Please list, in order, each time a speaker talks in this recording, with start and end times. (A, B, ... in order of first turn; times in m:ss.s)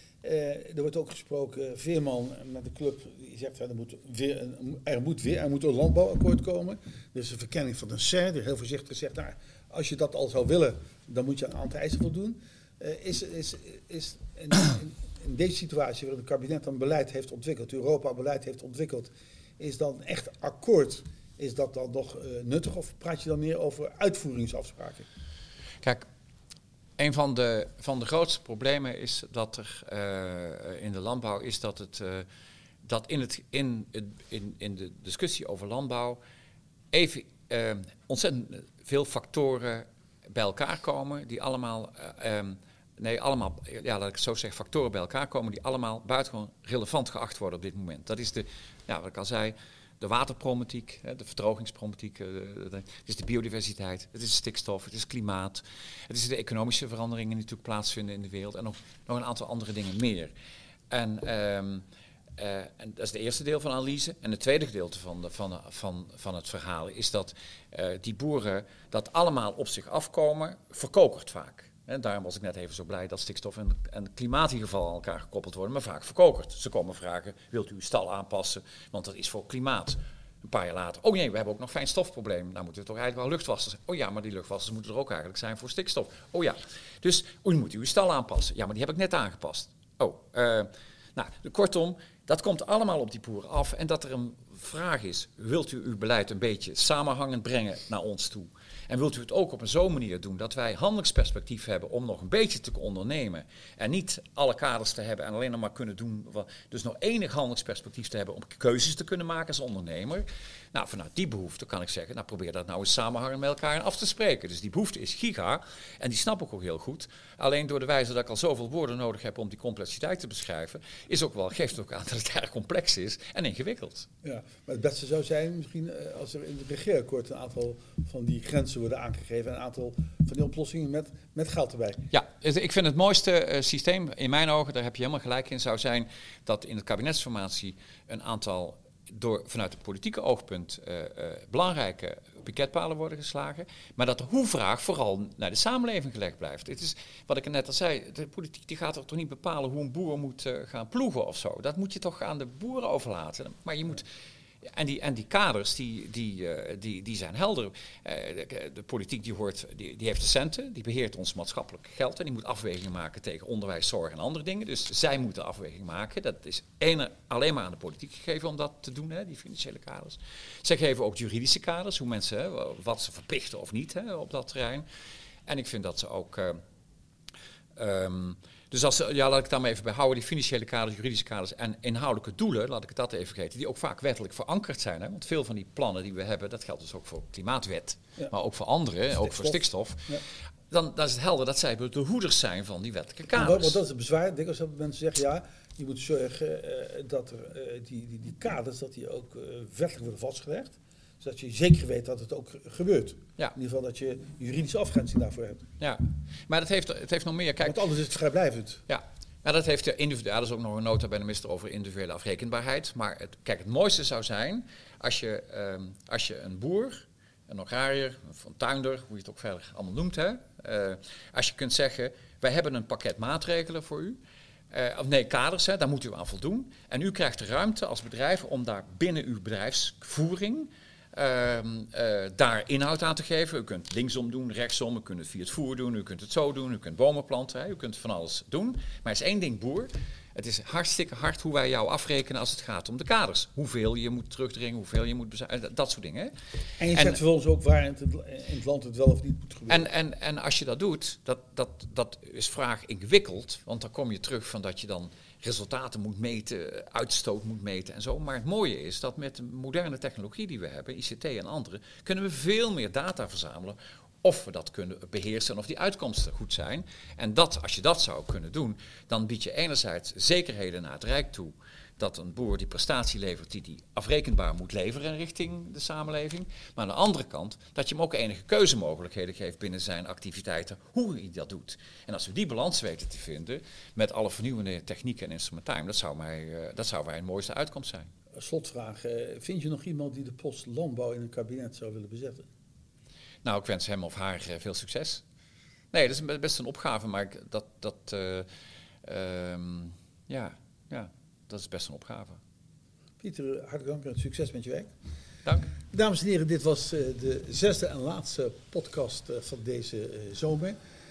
0:00.2-0:25.1 A
0:25.8-0:26.1 B
0:27.0-0:32.3 B
0:32.8-0:36.2 B
0:36.9-1:00.3 B
1:00.9-1:01.8 B
1:02.4-2:04.1 B
2:04.2-2:12.0 A
2:12.1-2:34.1 B
2:34.6-2:54.8 B
2:55.4-2:56.6 B
2:57.8-3:10.2 B
3:09.2-3:10.2 A
3:10.7-3:13.8 B
3:13.3-3:25.7 A
3:25.8-3:27.8 B
3:27.6-3:28.8 A
3:28.9-3:44.2 B
3:44.7-4:06.3 B
4:06.8-4:09.8 A
4:06.9-4:07.2 B
4:09.7-4:48.1 B
4:48.4-4:52.5 A
4:53.4-4:55.2 B
4:55.9-4:58.5 B
4:59.0-5:02.4 B
5:03.2-5:04.9 A
5:05.9-5:10.8 A